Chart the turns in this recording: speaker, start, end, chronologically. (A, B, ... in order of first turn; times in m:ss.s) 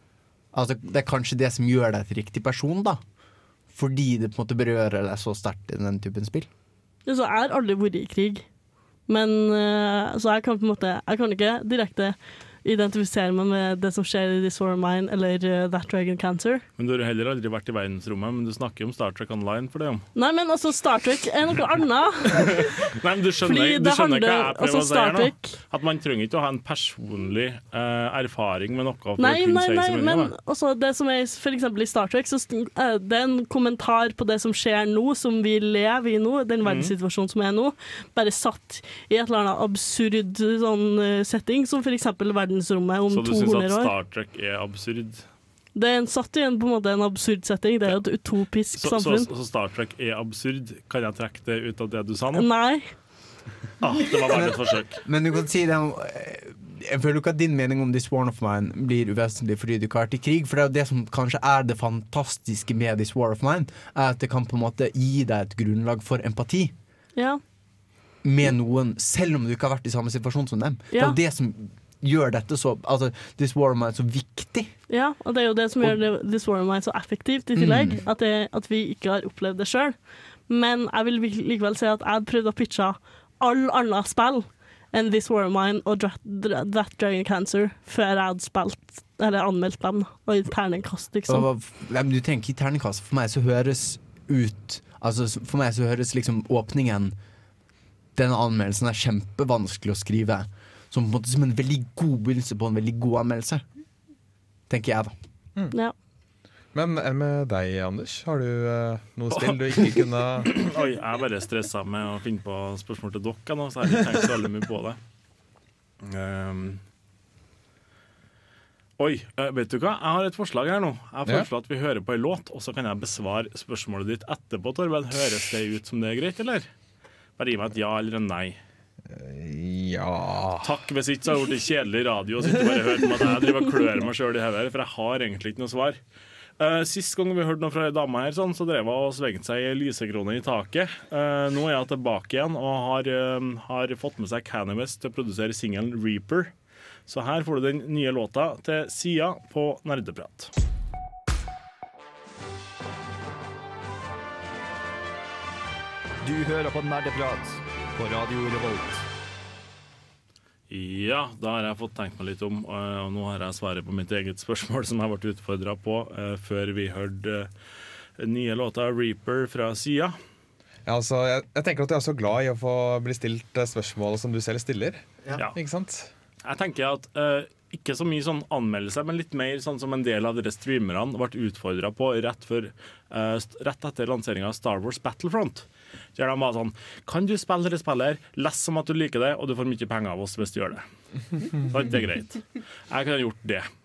0:00.5-0:03.0 A
0:03.7-0:06.5 A
0:07.1-0:08.4 B
0:09.1-0:16.6 B
0:16.8-0:20.0 C
0:20.2-0:22.7 B
0:22.8-0:30.3 C
0:23.5-0:25.5 B
0:29.2-0:43.9 B
0:36.6-0:36.9 C
0:43.1-0:45.3 C
0:45.8-0:49.3 B
0:48.8-0:52.5 C
0:52.4-0:53.0 B
0:53.8-0:55.0 C
0:54.3-1:06.7 A
1:07.2-1:07.4 B
1:08.2-1:14.8 A
1:10.9-1:11.2 B
1:14.9-1:31.5 B
1:17.6-1:18.0 A
1:31.3-1:37.2 A
1:38.2-1:43.6 A
1:44.7-1:45.1 A
1:46.7-1:50.5 D
1:49.3-1:50.0 A
1:50.5-1:55.0 C
1:56.0-1:56.8 C
1:59.0-2:06.7 C
2:07.4-2:08.6 C
2:09.1-2:10.7 D
2:10.6-2:16.0 C
2:16.6-2:26.5 C
2:27.1-2:30.5 C
2:36.3-2:37.4 E
2:38.0-2:38.8 E
2:40.7-2:47.5 C
2:48.2-2:50.2 C
2:50.9-2:56.1 D
2:56.4-3:10.8 C
3:11.4-3:13.7 C